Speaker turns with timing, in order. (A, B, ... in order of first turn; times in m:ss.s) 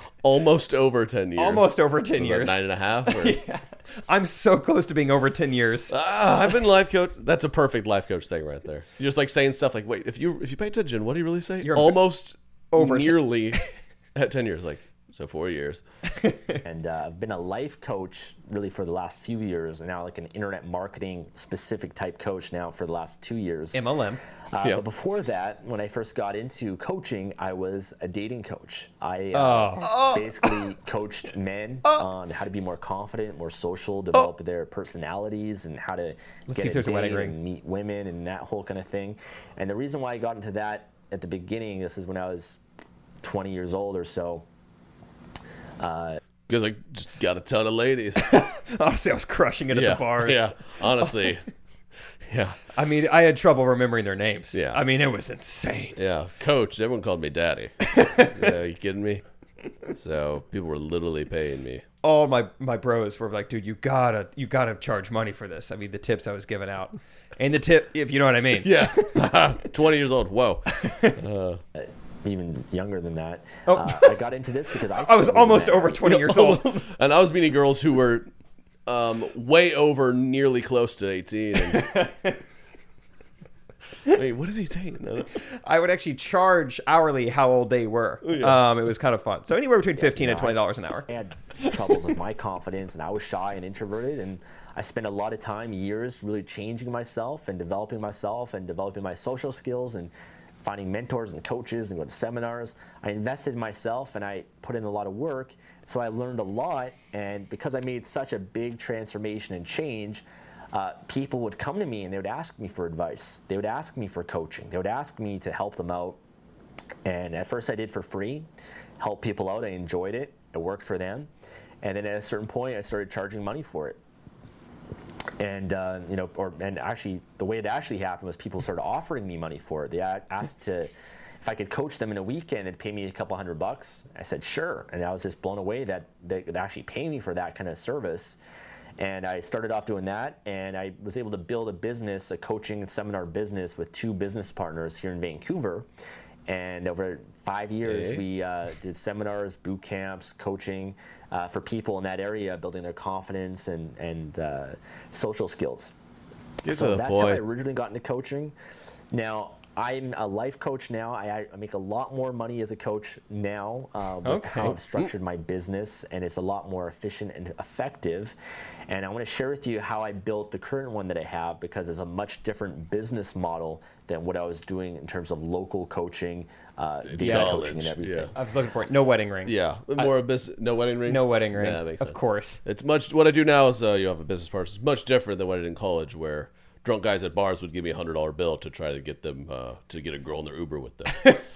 0:00.2-0:03.4 A
0:01.4-0:05.9 B
0:05.9-0:13.6 A
0:11.6-0:12.0 B
0:12.7-0:13.6 B
0:14.1-0:15.8 A
0:16.2-0:16.6 B
0:16.6-0:23.8 C
0:23.7-0:24.2 B
0:24.5-0:42.6 C
0:29.3-0:29.9 B
0:29.8-0:30.4 A
0:36.5-0:37.4 B
0:43.2-0:44.5 C
0:45.8-0:46.2 C
0:46.5-0:48.4 A
0:48.2-0:51.3 B
0:49.7-0:51.4 A
0:52.3-0:52.6 A
0:52.7-0:56.0 B
0:54.5-0:54.8 A
0:56.0-0:59.2 A
0:57.8-0:58.5 B
0:59.9-1:01.8 A
1:02.0-1:09.1 B
1:08.6-1:11.6 A
1:10.8-1:11.1 B
1:11.8-1:16.0 C
1:13.6-1:14.1 B
1:15.0-1:16.8 B
1:16.0-1:18.3 A
1:18.8-1:21.9 A
1:21.7-1:22.4 B
1:24.1-1:25.3 A
1:25.5-1:31.1 B
1:28.2-1:28.6 A
1:29.9-1:56.2 C
1:57.0-2:01.3 C
2:01.8-2:04.0 C
2:05.4-2:18.4 C
2:19.0-2:25.9 C
2:26.4-2:35.9 C
2:27.8-2:28.2 A
2:36.6-2:37.4 A
2:36.6-2:38.5 C
2:39.1-2:48.4 C
2:44.2-2:44.8 B
2:48.9-2:58.3 C
2:57.1-2:58.3 A
2:57.2-2:57.6 B
2:58.3-3:00.1 B
2:59.4-3:11.4 A
3:01.1-3:02.6 B
3:11.1-3:11.4 B